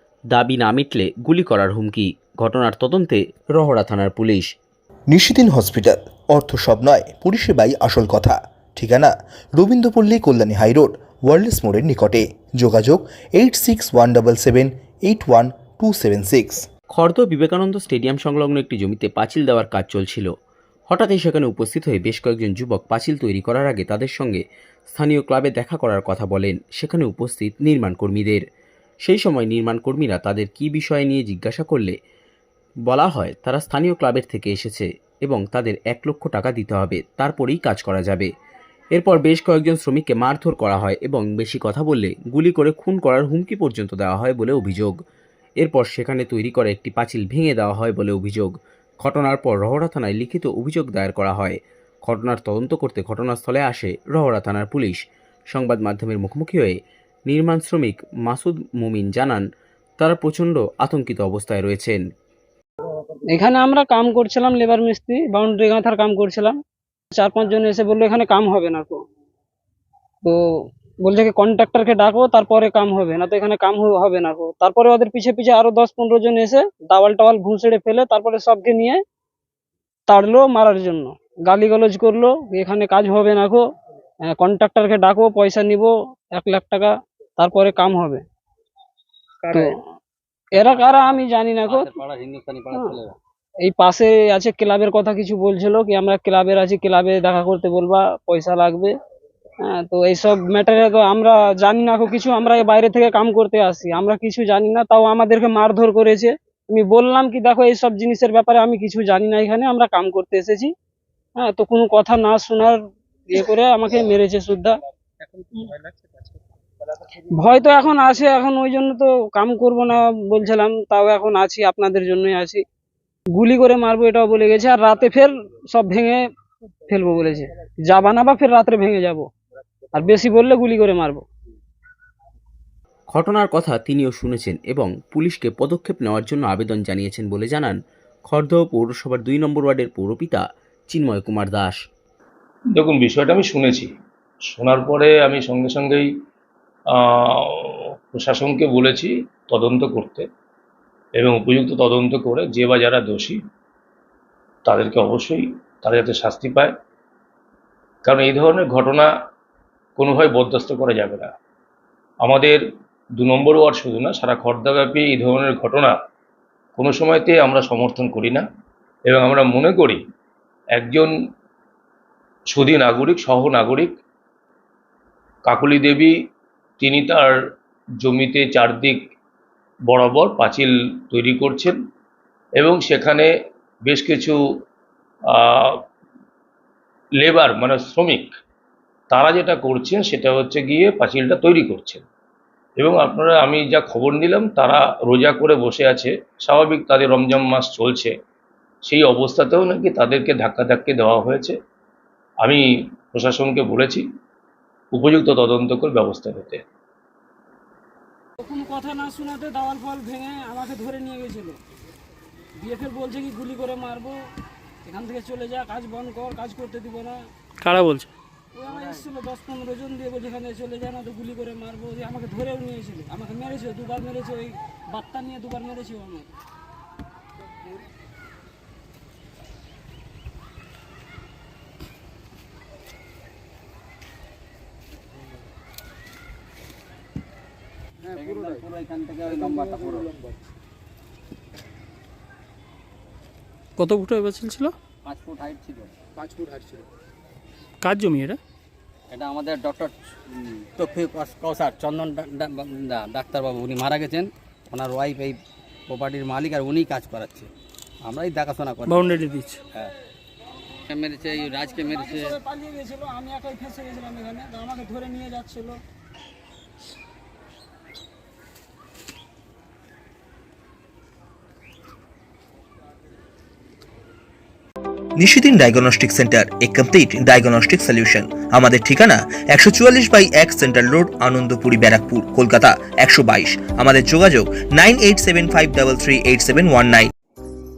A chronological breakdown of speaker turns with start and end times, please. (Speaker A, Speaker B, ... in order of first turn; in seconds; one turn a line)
Speaker A: 0.3-4.5
Speaker B: 5.1-16.6
Speaker A: 16.9-20.3
Speaker A: 20.9-28.4
Speaker A: 29.0-31.9
Speaker A: 32.9-38.3
Speaker A: 38.9-44.9
Speaker A: 45.6-55.0
Speaker A: 55.5-56.8
Speaker A: 57.3-59.4
Speaker A: 60.0-62.0
Speaker C: 63.3-66.5
Speaker C: 67.1-69.0
Speaker C: 71.0-79.0
Speaker C: 80.1-83.6
Speaker C: 84.3-88.2
Speaker D: 89.4-89.7
Speaker C: 90.5-91.9
Speaker D: 90.5-93.2
Speaker C: 93.6-98.9
Speaker C: 99.6-110.7
Speaker C: 111.4-112.8
Speaker C: 113.3-114.7
Speaker C: 117.4-122.6
Speaker C: 123.3-126.2
Speaker C: 126.9-129.2
Speaker C: 129.9-131.2
Speaker A: 133.1-137.8
Speaker A: 138.3-141.8
Speaker E: 142.8-143.9
Speaker E: 144.5-146.1
Speaker E: 146.9-150.3
Speaker E: 151.2-153.4
Speaker E: 154.7-156.7
Speaker E: 158.0-159.1
Speaker E: 160.0-161.3
Speaker E: 162.2-162.6
Speaker E: 163.2-165.9
Speaker E: 166.8-168.4
Speaker E: 169.1-170.0
Speaker E: 170.8-171.1
Speaker E: 172.5-173.9
Speaker E: 175.4-176.1
Speaker E: 176.8-177.3
Speaker E: 178.0-179.0
Speaker E: 179.9-181.8
Speaker E: 182.6-183.3
Speaker E: 183.8-184.4
Speaker E: 185.3-185.8
Speaker E: 187.2-188.3
Speaker E: 189.1-192.0
Speaker E: 192.8-198.1
Speaker E: 198.8-201.6
Speaker E: 202.4-204.0
Speaker E: 204.9-206.6
Speaker C: 208.4-211.6
Speaker C: 212.6-214.2
Speaker C: 214.8-217.2
Speaker F: 217.6-218.1
Speaker C: 218.5-226.3
Speaker D: 238.0-240.2
Speaker F: 243.8-244.7
Speaker D: 245.0-246.8
Speaker F: 247.8-248.4
Speaker D: 249.1-257.5
Speaker D: 258.0-259.9
Speaker F: 258.9-259.6
Speaker D: 260.9-262.4
Speaker C: 261.3-265.8
Speaker B: 275.2-287.1